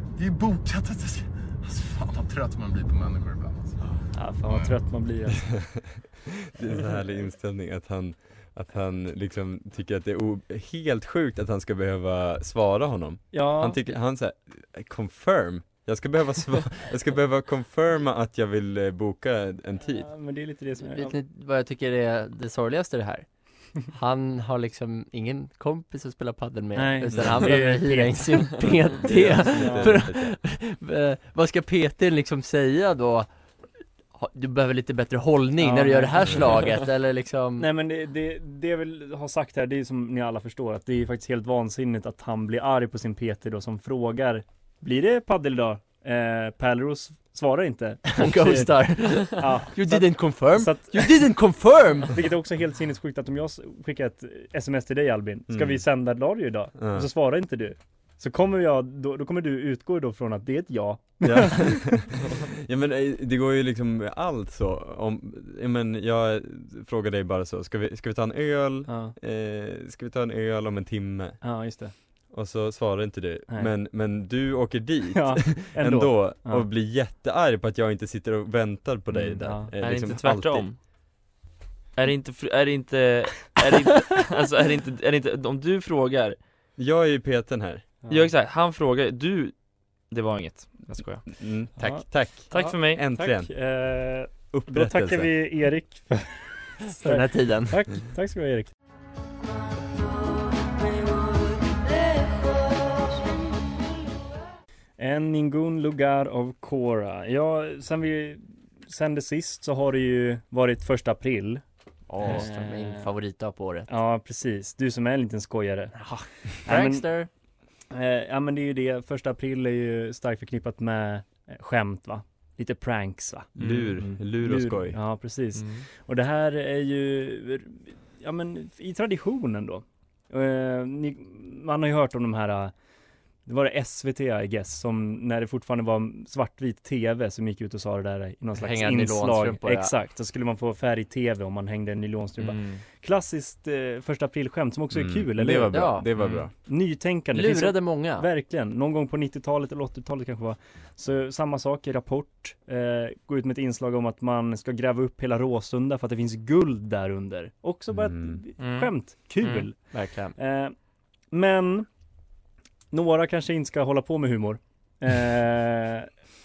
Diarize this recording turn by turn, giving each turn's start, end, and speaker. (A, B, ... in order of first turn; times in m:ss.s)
0:00.2-0:04.7 A
0:04.1-0:05.6 B
0:05.5-0:20.1 C
0:06.7-0:07.0 B
0:13.3-0:13.8 B
0:20.0-0:21.2 B
0:20.9-0:37.7 D
0:26.8-0:28.7 B
0:27.1-0:27.4 C
0:29.0-0:30.4 C
0:29.6-0:30.0 B
0:35.6-0:36.5 B
0:37.6-0:51.2 B
0:48.1-0:52.2 D
0:52.1-1:01.9 B
0:55.5-0:55.8 C
0:56.8-0:57.1 C
1:01.2-1:11.6 C
1:08.9-1:09.2 B
1:11.4-1:12.0 B
1:12.3-1:20.7 C
1:15.1-1:16.7 B
1:19.1-1:19.7 B
1:19.8-1:20.8 E
1:22.0-1:26.4 E
1:26.8-1:27.9 C
1:28.0-1:28.3 B
1:28.1-1:31.3 E
1:31.3-1:33.5 C
1:31.8-1:38.7 B
1:32.5-1:33.0 E
1:34.5-1:35.4 C
1:37.0-1:37.8 D
1:45.0-1:51.6 B
1:52.1-1:53.9 D
1:52.2-1:53.1 B
1:53.9-1:57.1 B
1:56.0-1:57.3 D
1:57.9-2:12.7 B
2:03.6-2:05.0 C
2:13.4-2:40.8 B
2:18.6-2:19.9 D
2:22.4-2:22.8 E
2:24.9-2:26.5 C
2:25.7-2:26.1 D
2:26.2-2:26.4 E
2:27.3-2:28.3 D
2:37.9-2:38.4 C
2:39.8-2:40.4 D
2:41.3-2:41.9 B
2:42.9-2:46.1 B